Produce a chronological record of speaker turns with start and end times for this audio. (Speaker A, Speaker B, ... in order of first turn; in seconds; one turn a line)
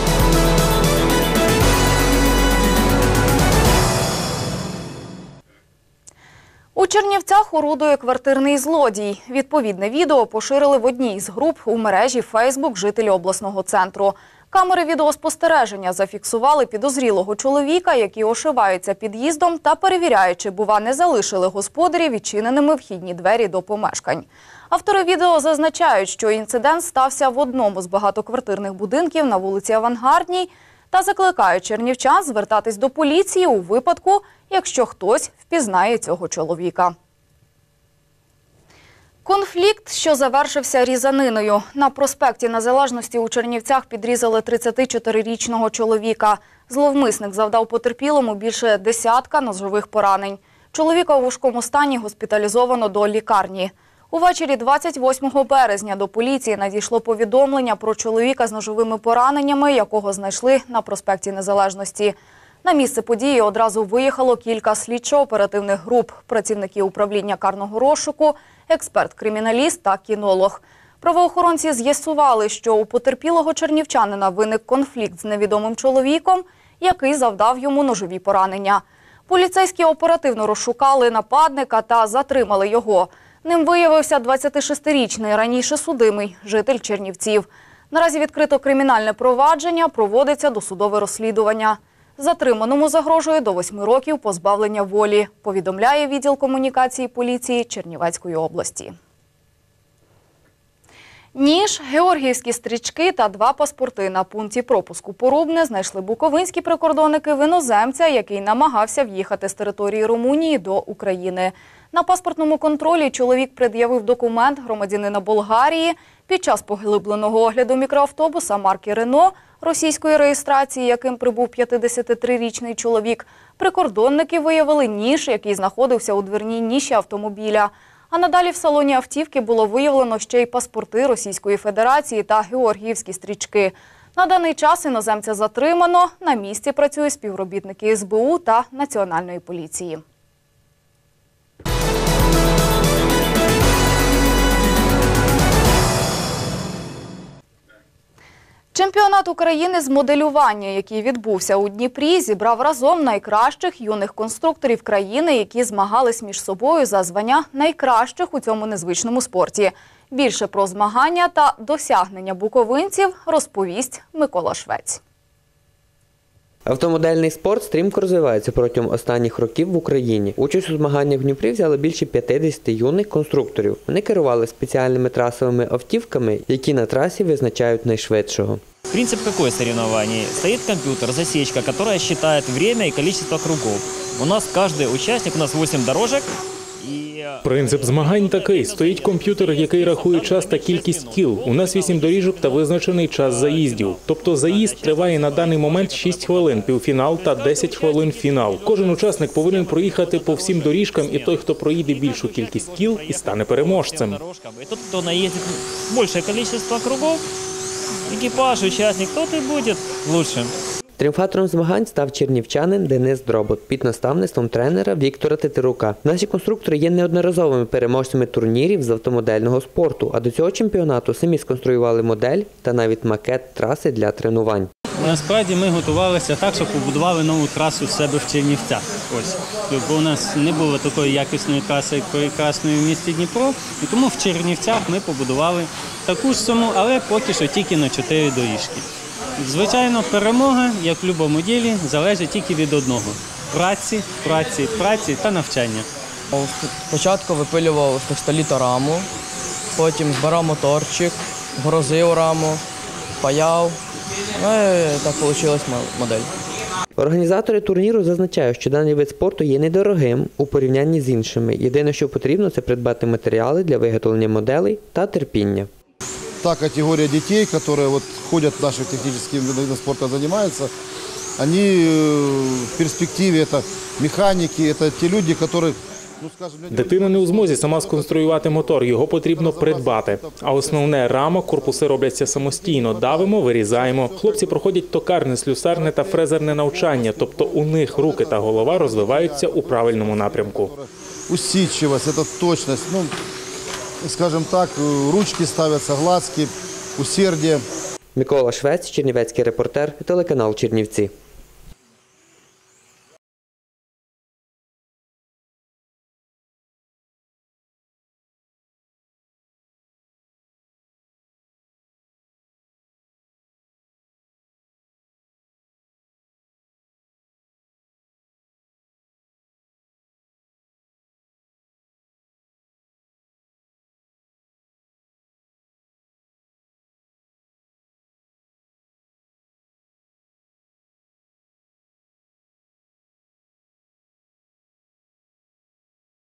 Speaker A: 6.8-36.9
Speaker A: 39.2-98.9
Speaker A: 101.3-140.0
Speaker A: 148.7-165.0
Speaker B: 166.7-178.6
Speaker C: 178.9-186.3
Speaker C: 186.8-192.6
Speaker D: 187.4-204.2
Speaker C: 193.3-207.2
Speaker C: 208.1-210.5
Speaker B: 211.0-224.7
Speaker E: 225.0-238.9
Speaker E: 239.4-245.9
Speaker F: 246.3-249.1
Speaker F: 249.8-252.6
Speaker F: 253.2-253.8
Speaker F: 254.3-256.3
Speaker B: 257.0-265.7
Speaker G: 266.4-270.7
Speaker G: 271.4-284.6
Speaker D: 276.7-290.7
Speaker G: 285.7-293.1
Speaker G: 294.0-297.6
Speaker B: 298.2-301.1